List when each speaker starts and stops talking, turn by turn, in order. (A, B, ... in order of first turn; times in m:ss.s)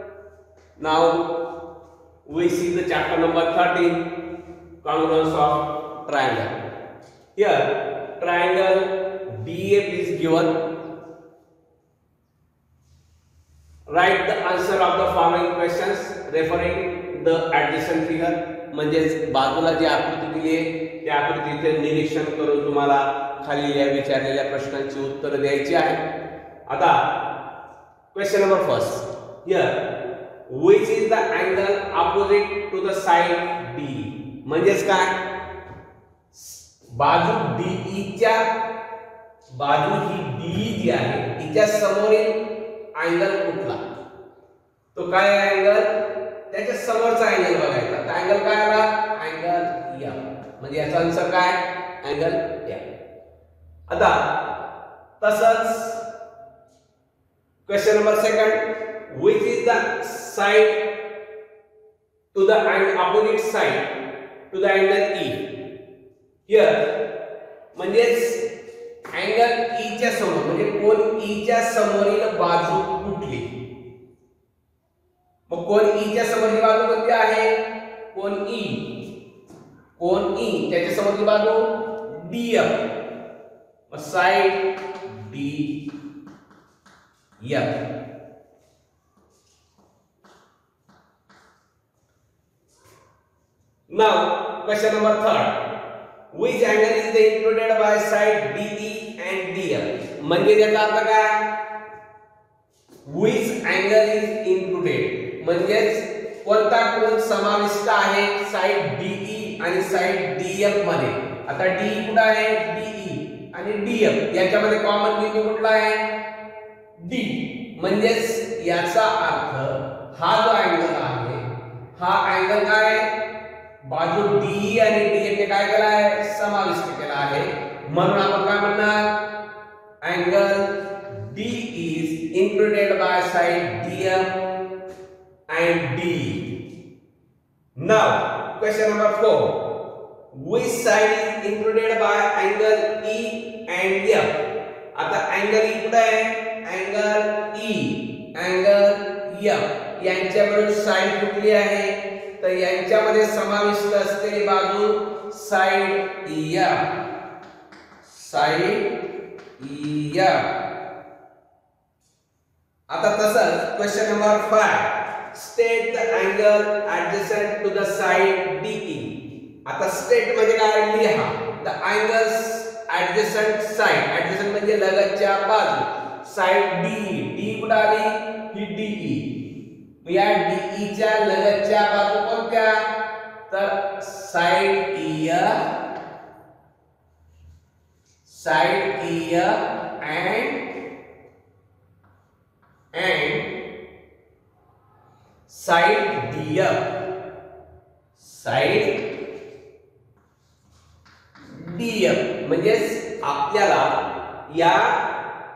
0:00.8-0:01.2 A
0:02.3-0:04.0 A
0:04.8-0:06.5 A
0:07.4-0:10.6 A
0:13.9-0:26.0 A
0:26.7-0:27.0 A
0:28.1-0:29.8 A
0:30.5-0:35.2 A
0:36.3-0:38.4 A
0:39.5-0:42.4 A
0:43.0-0:43.8 A
0:44.9-0:45.9 A
0:46.5-0:52.8 A
0:53.9-0:54.2 A
0:55.2-0:56.0 A
0:57.7-1:00.8 A
1:02.3-1:03.9 A
1:04.5-1:05.4 A
1:06.5-1:06.8 A
1:07.7-1:08.4 A
1:09.1-1:13.5 A
1:15.5-1:17.5 A
1:18.1-1:18.9 A
1:20.0-1:22.8 A
1:23.9-1:25.8 A
1:27.4-1:27.8 A
1:33.9-1:35.6 A
1:36.3-1:41.4 A
1:43.1-1:56.0 A
1:57.0-2:01.4 A
2:02.0-2:03.1 A
2:03.8-2:09.1 A
2:10.0-2:14.3 A
2:15.5-2:16.4 A
2:17.8-2:19.6 A
2:20.3-2:24.4 A
2:25.0-2:36.9 A
2:38.0-2:38.9 A
2:39.6-2:40.5 A
2:42.9-2:49.2 A
2:49.7-2:59.3 A
3:00.0-3:02.9 A
3:03.5-3:05.6 A
3:08.2-3:10.6 A
3:12.9-3:13.5 A
3:15.5-3:16.8 A
3:18.2-3:19.0 A
3:21.5-3:25.0 A